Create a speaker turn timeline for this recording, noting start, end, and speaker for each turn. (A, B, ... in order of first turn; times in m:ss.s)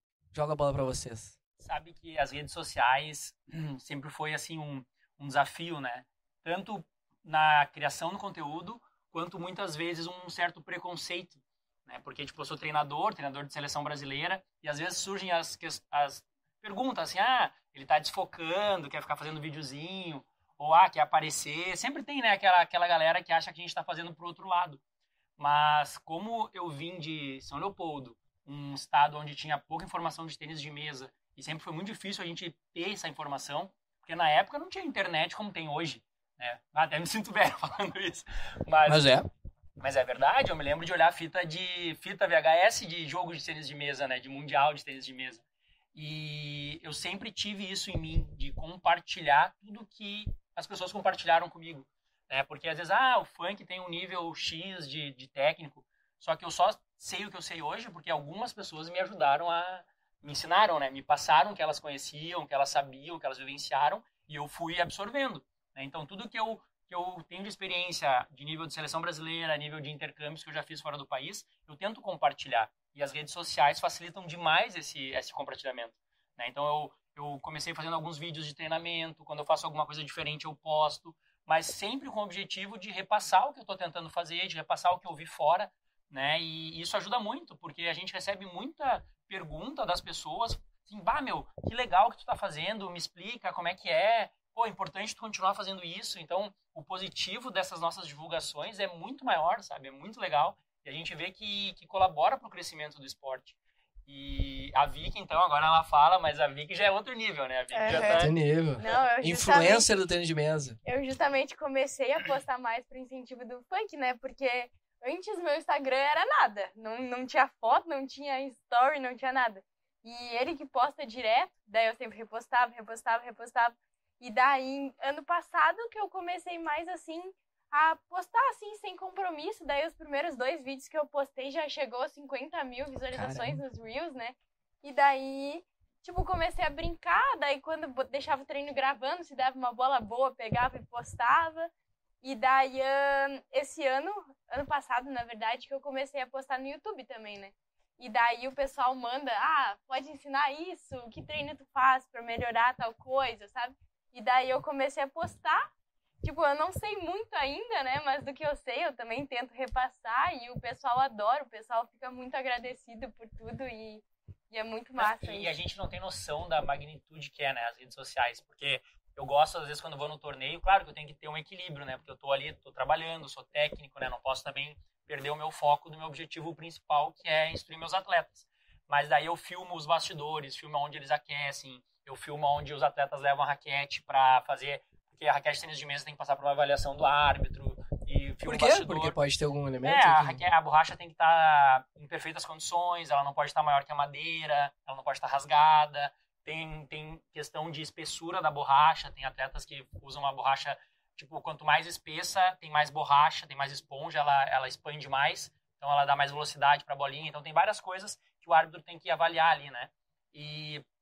0:00.3-0:01.4 A
0:01.6-0:24.8 B
0:25.4-0:39.1 B
0:38.9-0:39.3 A
0:39.8-1:48.4 B
1:47.7-1:50.0 C
1:47.9-1:50.8 A
1:50.8-2:21.7 C
2:13.1-2:13.6 A
2:22.2-2:35.7 C
2:36.2-2:45.6 C
2:45.0-3:09.2 B
3:08.4-3:10.4 A
3:09.8-3:30.8 B